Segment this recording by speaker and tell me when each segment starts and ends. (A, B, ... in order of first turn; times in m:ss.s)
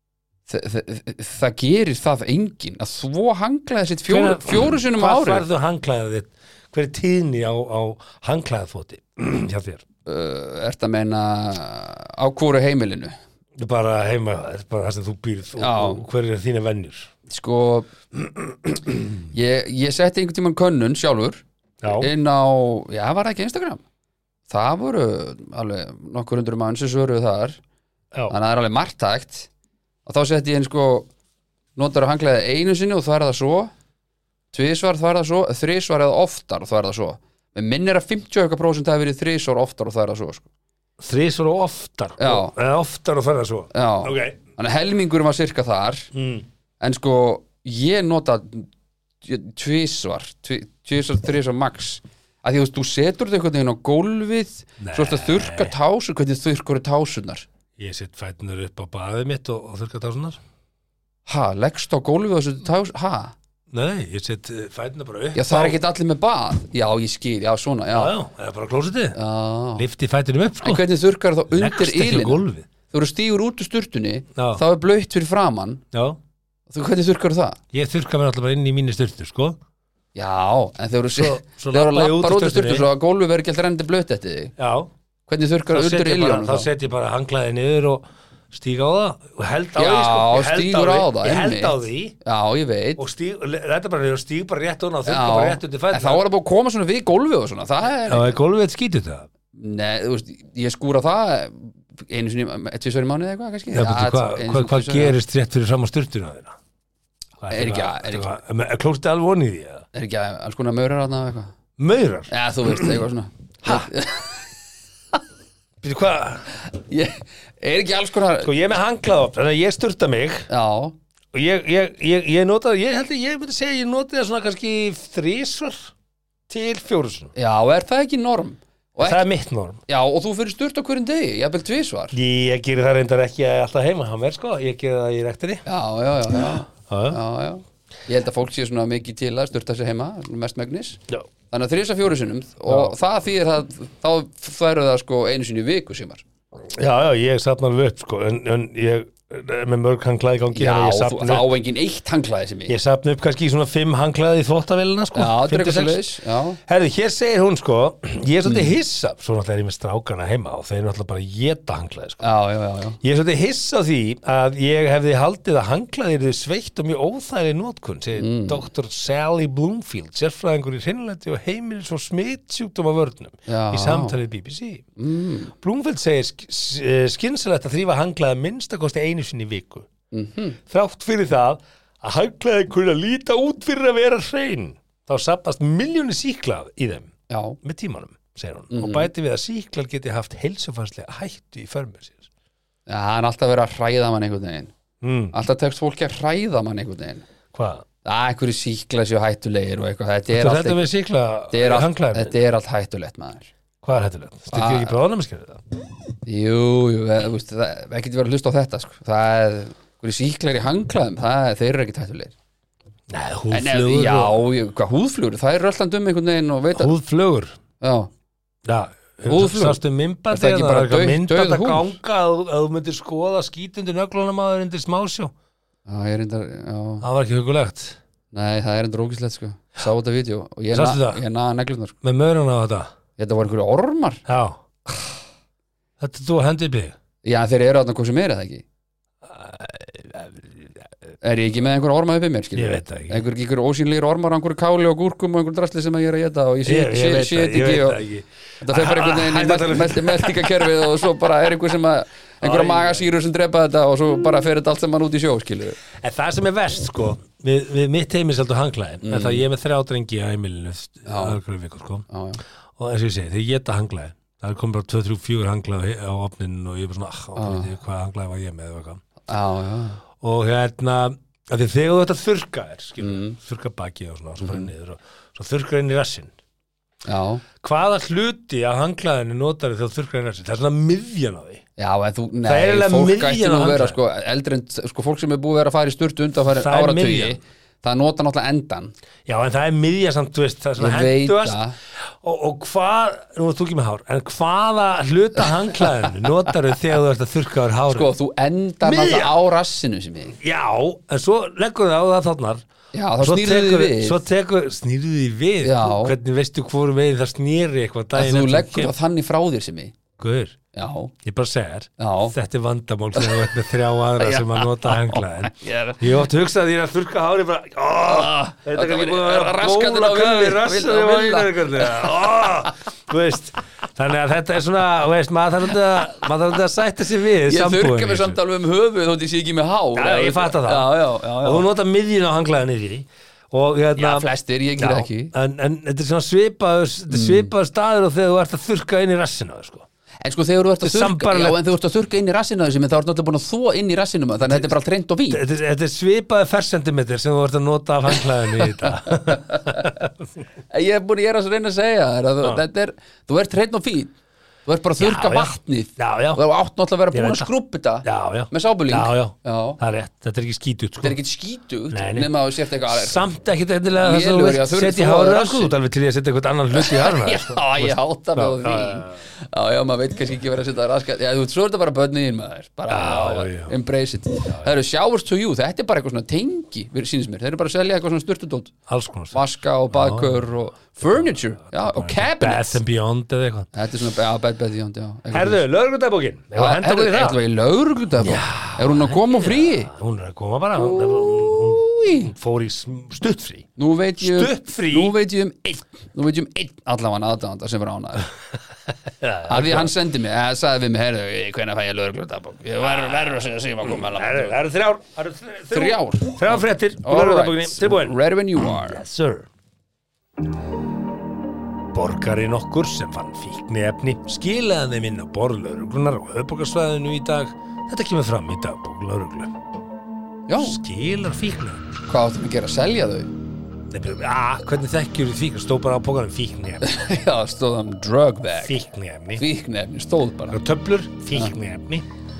0:00.5-0:05.4 A
0:04.1-0:09.8 B
0:10.0-0:13.1 A
0:13.6-0:17.1 B
0:15.6-0:16.0 A
0:17.3-0:21.4 A
0:21.8-0:22.1 B
0:22.0-0:23.8 A
0:24.5-0:27.6 A
0:28.3-0:29.5 A
0:30.0-0:31.1 A
0:31.8-0:33.7 A
0:34.5-0:40.4 A
0:41.0-0:44.4 B
0:42.2-0:42.5 A
0:43.7-0:46.1 A
0:46.1-0:46.4 B
0:46.8-0:48.7 A
0:49.2-0:57.4 A
0:54.8-0:55.7 B
0:57.8-1:00.4 B
1:01.2-1:03.3 A
1:03.7-1:05.8 B
1:05.3-1:08.1 A
1:07.9-1:09.2 B
1:09.1-1:09.8 A
1:09.8-1:10.8 B
1:10.6-1:15.8 A
1:11.5-1:12.6 B
1:14.4-1:14.6 B
1:15.9-1:16.2 B
1:16.7-1:17.6 A
1:17.7-1:19.6 B
1:20.1-1:24.5 A
1:21.1-1:22.9 B
1:24.6-1:24.9 B
1:25.3-1:26.7 A
1:25.7-1:32.2 B
1:29.8-1:33.0 A
1:33.0-1:36.2 B
1:35.0-1:38.4 A
1:38.0-1:39.3 B
1:39.5-1:45.2 A
1:43.7-1:46.5 B
1:47.4-1:49.8 B
1:47.5-1:48.3 A
1:49.9-1:51.5 A
1:51.8-1:52.9 B
1:52.3-1:54.4 A
1:53.6-1:53.9 B
1:55.8-1:56.5 B
1:56.6-1:58.5 A
1:58.4-2:00.5 B
2:00.5-2:01.0 A
2:01.3-2:05.9 B
2:06.5-2:07.3 B
2:07.4-2:09.2 A
2:09.0-2:09.8 B
2:09.9-2:12.2 A
2:12.1-2:15.6 B
2:15.6-2:26.2 A
2:16.9-2:17.2 B
2:22.7-2:22.9 B
2:26.8-2:31.5 B
2:30.5-2:32.7 A
2:32.7-2:36.1 B
2:35.1-2:36.6 A
2:36.6-2:42.2 B
2:38.4-2:38.7 A
2:42.2-2:43.0 A
2:43.0-2:54.8 B
2:48.2-2:48.6 A
2:53.5-2:54.2 A
2:55.0-2:55.5 A
2:55.6-2:59.9 B
3:00.1-3:00.6 A
3:00.7-3:12.3 B
3:07.3-3:07.6 A
3:08.7-3:09.1 A
3:12.9-3:14.7 A
3:15.0-3:15.3 B
3:15.3-3:17.2 A
3:17.5-3:17.8 B
3:18.0-3:20.8 A
3:20.3-3:22.3 B
3:21.5-3:23.5 A
3:23.8-3:25.6 B
3:24.5-3:24.9 A
3:26.2-3:32.3 A
3:33.1-3:34.4 B
3:33.5-3:36.9 A
3:36.7-3:37.5 B
3:37.8-3:38.1 A
3:38.6-3:45.3 B
3:39.3-3:39.8 A
3:40.3-3:41.9 A
3:45.9-3:47.0 A
3:47.0-3:48.0 B
3:48.3-3:52.0 A
3:50.7-3:51.2 B
3:52.0-3:52.9 B
3:53.2-3:54.2 A
3:54.3-3:54.6 B
3:56.0-3:56.9 B
3:57.2-3:58.6 A
3:59.2-4:00.7 B
4:01.2-4:08.0 A
4:02.5-4:03.2 B
4:06.6-4:10.9 B
4:08.6-4:15.8 A
4:12.4-4:13.0 B
4:15.9-4:22.1 B
4:19.0-4:19.4 A
4:21.0-4:21.4 A
4:22.1-4:22.4 A
4:22.8-4:29.0 B
4:27.3-4:27.7 A
4:29.3-4:30.0 A
4:30.2-4:36.3 B
4:33.0-4:33.4 A
4:34.4-4:34.7 A
4:37.0-4:37.4 A
4:37.6-4:41.6 B
4:41.8-4:48.9 A
4:42.4-4:44.0 B
4:46.5-4:47.4 B
4:49.2-4:51.6 B
4:50.8-4:51.8 A
4:52.2-4:58.1 B
4:55.4-4:56.3 A
4:57.9-5:00.4 A
4:58.8-4:59.3 B
5:00.4-5:02.6 B
5:02.9-5:04.2 A
5:03.2-5:08.9 B
5:05.6-5:06.1 A
5:08.1-5:10.0 A
5:10.2-5:10.6 B
5:10.7-5:11.1 A
5:11.2-5:28.4 B
5:12.0-5:12.3 A
5:13.2-5:13.5 A
5:14.2-5:16.1 A
5:18.0-5:22.7 A
5:27.5-5:31.6 A
5:30.0-5:34.3 B
5:34.0-5:35.3 A
5:34.8-5:39.8 B
5:37.1-5:37.5 A
5:40.2-5:45.4 A
5:40.8-5:41.6 B
5:44.5-5:44.8 B
5:45.3-5:50.1 B
5:48.2-5:50.0 A
5:50.7-5:54.1 A
5:54.6-5:59.8 A
5:55.0-5:56.4 B
5:57.1-5:57.5 B
5:58.0-6:01.2 B
6:01.0-6:03.2 A
6:01.9-6:09.2 B
6:04.0-6:05.8 A
6:06.7-6:18.7 A
6:12.9-6:13.7 B
6:14.4-6:14.7 B
6:18.9-6:19.4 B
6:19.3-6:22.8 A
6:19.9-6:20.5 B
6:21.1-6:23.7 B
6:23.7-6:25.6 A
6:25.3-6:27.4 B
6:26.6-6:29.9 A
6:28.2-6:33.7 B
6:30.8-6:32.3 A
6:33.8-6:38.3 A
6:34.2-6:35.2 B
6:39.2-6:39.9 B
6:39.5-6:44.5 A
6:43.8-6:49.5 B
6:45.7-6:49.0 A
6:51.9-6:59.5 B
7:00.5-7:00.8 A
7:00.6-7:01.8 B
7:02.1-7:03.3 A
7:03.9-7:06.8 B
7:06.8-7:08.8 A
7:08.6-7:09.4 B
7:09.4-7:10.6 A
7:10.5-7:12.0 B